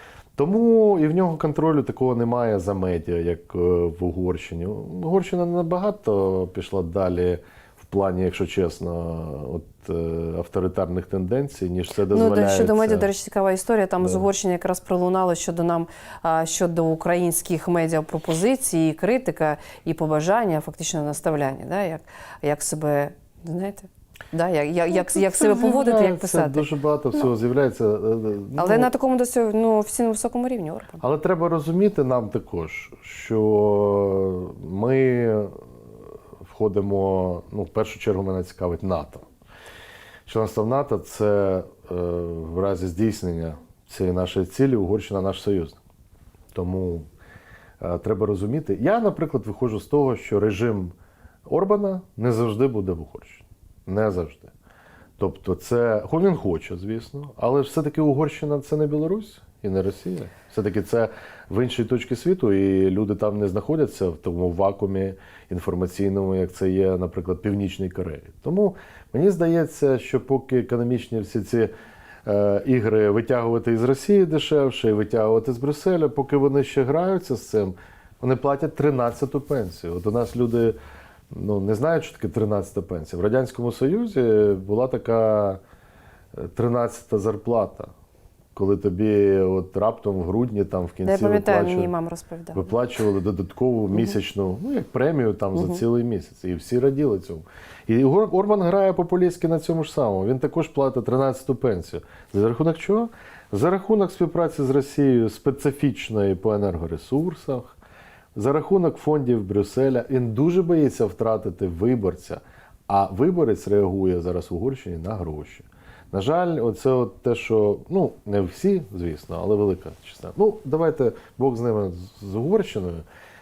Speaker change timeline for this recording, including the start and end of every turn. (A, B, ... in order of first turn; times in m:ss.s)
0:00.4-0:13.1 A
0:12.1-0:26.6 B
0:24.9-0:28.9 A
0:28.6-0:31.0 B
0:31.0-0:35.6 A
0:36.4-0:39.2 A
0:40.3-0:45.8 A
0:46.5-0:47.0 A
0:47.8-0:50.9 A
0:51.5-0:54.5 A
0:55.2-1:11.7 A
1:12.2-1:20.8 A
1:21.3-1:25.6 A
1:26.3-1:27.9 A
1:28.5-1:31.9 A
1:31.0-1:32.7 B
1:32.5-1:47.8 A
1:48.3-2:03.0 A